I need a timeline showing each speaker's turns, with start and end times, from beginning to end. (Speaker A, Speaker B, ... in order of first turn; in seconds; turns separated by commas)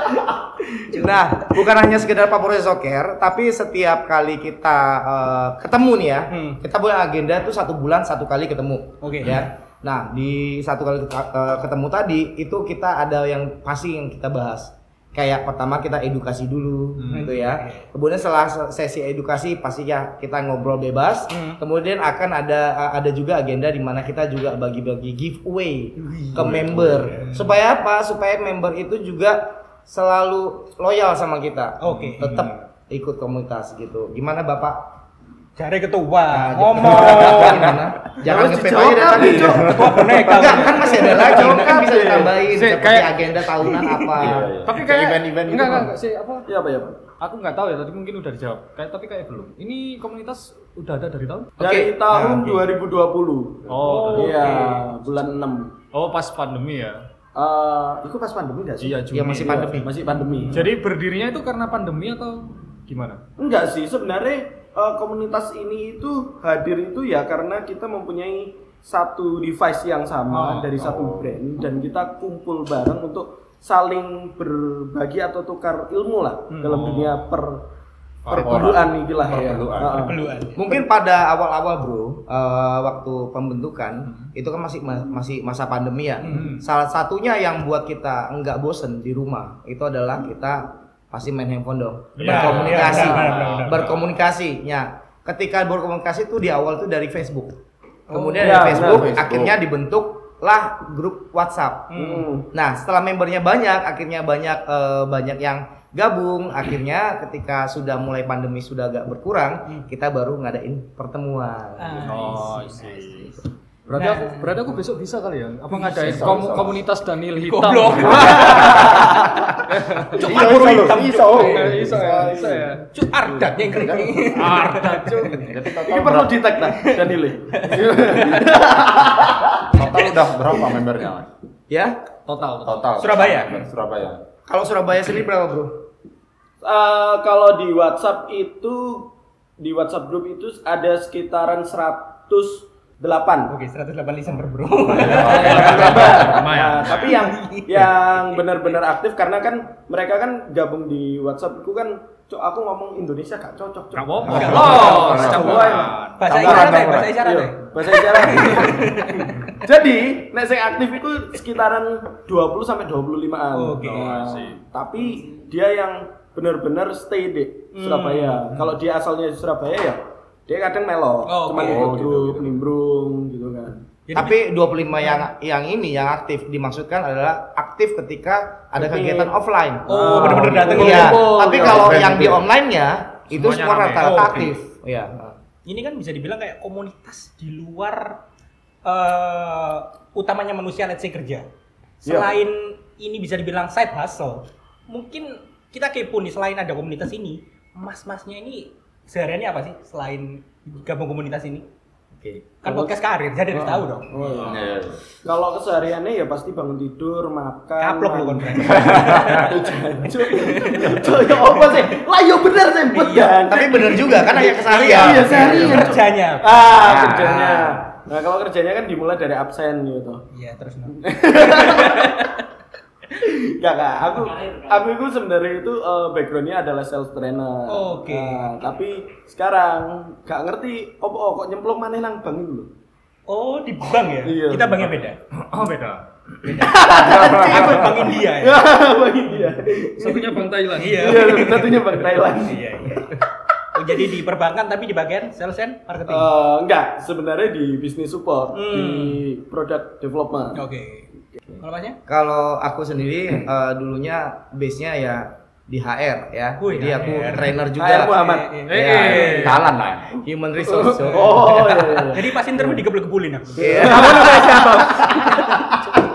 Speaker A: 0.9-34.9, Speaker B: 6.3-6.6, Speaker B: 9.0-9.5, Speaker C: 17.0-17.3, Speaker B: 17.1-17.9, Speaker B: 21.3-21.6, Speaker B: 26.0-26.4, Speaker D: 26.3-27.1, Speaker B: 27.2-27.5, Speaker B: 31.8-32.3, Speaker C: 32.0-32.5, Speaker B: 35.5-37.7, Speaker A: 36.3-44.5, Speaker D: 36.9-37.7, Speaker E: 38.2-39.7, Speaker B: 39.0-41.7, Speaker D: 39.5-40.1, Speaker E: 41.1-42.3, Speaker C: 42.5-43.2, Speaker B: 43.7-44.1, Speaker D: 44.1-45.9, Speaker C: 44.6-46.5, Speaker E: 46.5-47.0, Speaker C: 47.2-51.5, Speaker A: 51.6-52.6, Speaker E: 51.6-55.7, Speaker C: 53.7-54.5, Speaker B: 53.8-54.8, Speaker C: 55.9-57.0, Speaker E: 57.3-60.7, Speaker C: 58.8-59.8, Speaker A: 59.1-59.9, Speaker C: 60.5-63.2, Speaker E: 63.4-77.6, Speaker C: 70.3-70.7, Speaker D: 70.7-71.4, Speaker C: 76.6-77.2, Speaker C: 78.2-78.6, Speaker E: 78.3-80.2, Speaker D: 78.3-80.1, Speaker B: 79.9-80.6, Speaker A: 80.5-97.5, Speaker C: 86.3-86.6, Speaker C: 92.2-93.2, Speaker B: 92.2-94.0, Speaker D: 93.2-93.7, Speaker A: 98.1-101.9, Speaker B: 98.1-98.7, Speaker E: 98.4-99.1, Speaker D: 98.6-99.6, Speaker B: 101.9-102.3, Speaker E: 102.0-102.5, Speaker A: 102.5-112.2, Speaker B: 111.8-113.3, Speaker C: 112.0-113.3, Speaker A: 113.9-114.2, Speaker C: 113.9-118.9, Speaker B: 113.9-114.5, Speaker D: 115.8-116.8, Speaker B: 117.4-119.5, Speaker E: 118.5-118.9, Speaker C: 119.7-120.1, Speaker B: 120.1-122.0, Speaker D: 120.2-122.5, Speaker C: 121.4-122.8, Speaker E: 122.0-122.7, Speaker B: 122.9-125.6, Speaker D: 123.4-124.3, Speaker C: 124.2-125.4, Speaker D: 125.2-126.5, Speaker E: 125.8-129.6, Speaker B: 126.6-128.5, Speaker D: 129.7-131.3, Speaker A: 131.7-131.9, Speaker C: 132.2-132.9, Speaker D: 132.6-134.2, Speaker B: 133.0-133.6, Speaker A: 134.5-135.8, Speaker E: 136.6-143.5, Speaker B: 143.5-147.9, Speaker D: 144.9-146.5, Speaker C: 145.0-147.2, Speaker E: 145.3-158.9, Speaker C: 153.9-156.7, Speaker D: 154.2-155.8, Speaker B: 154.2-159.5, Speaker D: 156.4-157.2, Speaker E: 159.6-173.8, Speaker B: 163.5-164.1, Speaker C: 163.8-164.6, Speaker B: 167.7-168.4, Speaker B: 171.3-171.9, Speaker D: 171.5-172.6, Speaker B: 174.1-174.4, Speaker A: 174.1-185.3, Speaker E: 178.8-179.3, Speaker B: 179.8-181.2, Speaker E: 179.9-182.4, Speaker D: 181.6-182.4, Speaker C: 183.3-184.5, Speaker B: 184.0-184.5, Speaker B: 185.6-188.2, Speaker B: 188.8-191.4, Speaker B: 192.0-201.6, Speaker E: 192.0-192.3, Speaker A: 202.2-202.4, Speaker B: 202.6-204.6, Speaker E: 202.7-202.9, Speaker E: 203.5-204.6, Speaker D: 204.4-205.0, Speaker E: 205.2-213.7, Speaker B: 207.8-209.5, Speaker D: 208.9-209.3, Speaker B: 210.3-211.8, Speaker B: 212.9-216.6, Speaker A: 213.5-215.8, Speaker E: 214.2-220.2, Speaker D: 216.8-217.6, Speaker B: 217.3-217.5, Speaker B: 220.3-222.4, Speaker E: 221.0-222.2, Speaker E: 223.2-232.7, Speaker B: 227.7-228.5, Speaker B: 233.3-235.2, Speaker E: 234.2-234.9, Speaker C: 235.5-236.1, Speaker B: 236.4-238.6, Speaker E: 236.6-240.4, Speaker C: 240.0-241.4, Speaker B: 240.8-243.2, Speaker E: 240.9-242.6, Speaker B: 243.7-246.3, Speaker E: 246.1-250.6, Speaker B: 248.5-249.2, Speaker B: 250.6-251.1, Speaker B: 251.6-252.0, Speaker A: 252.1-258.1, Speaker B: 256.6-257.6, Speaker E: 257.7-258.5, Speaker B: 258.2-259.5, Speaker C: 258.7-259.6, Speaker A: 258.7-261.6, Speaker D: 259.3-260.2, Speaker E: 260.6-262.8, Speaker B: 261.0-266.0, Speaker E: 263.6-264.4, Speaker A: 263.6-265.0